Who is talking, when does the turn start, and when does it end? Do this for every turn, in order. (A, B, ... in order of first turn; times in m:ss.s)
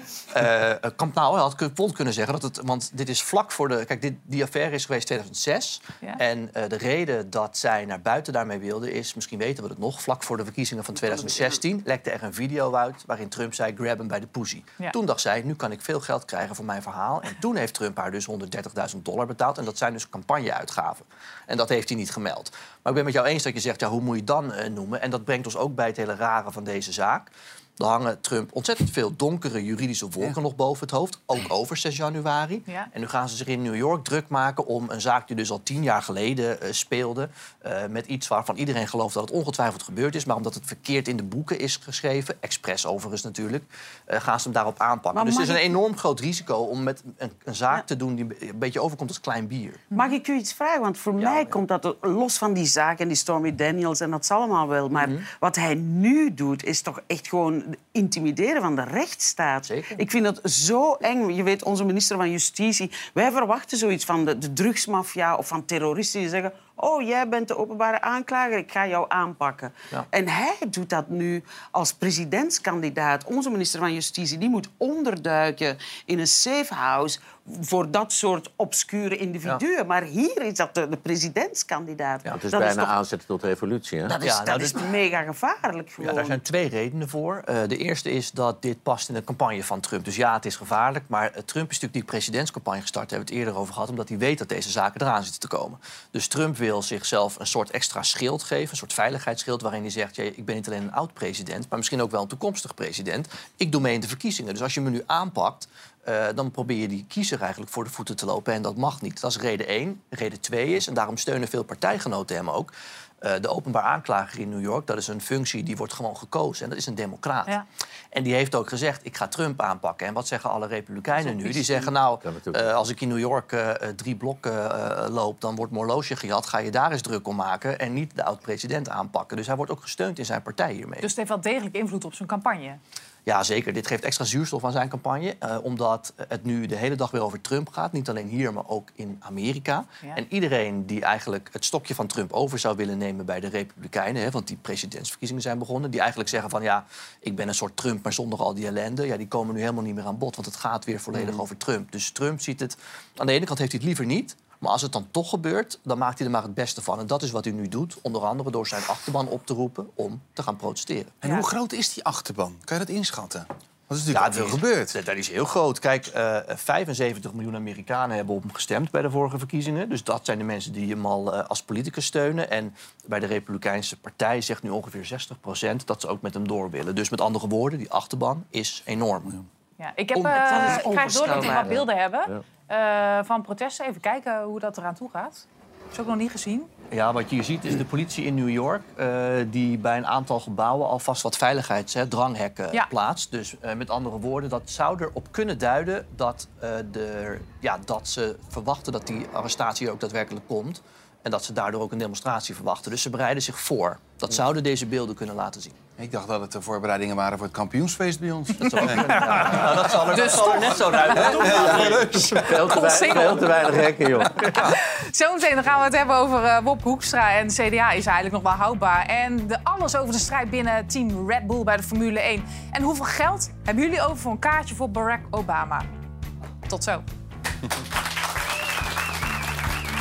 0:00.3-0:49.8 A
0:45.1-0:45.7 B
0:49.9-0:50.2 B
0:49.9-1:22.9 C
0:51.2-0:51.6 A
0:55.0-0:55.2 A
0:59.6-1:00.0 A
1:22.3-1:24.2 D
1:24.1-1:24.9 A
1:24.2-1:26.4 C
1:26.0-2:11.1 A
2:02.2-2:02.7 D
2:11.0-2:12.8 B
2:13.2-2:41.2 A
2:41.2-2:45.0 E
2:44.1-2:59.4 A
2:59.8-3:06.7 B
3:00.2-3:01.8 C
3:06.9-3:25.7 A
3:26.0-3:30.0 E
3:28.6-3:32.1 A
3:29.3-3:34.7 D
3:30.1-3:31.4 B
3:31.1-3:32.8 E
3:32.6-3:45.9 B
3:46.7-3:47.0 B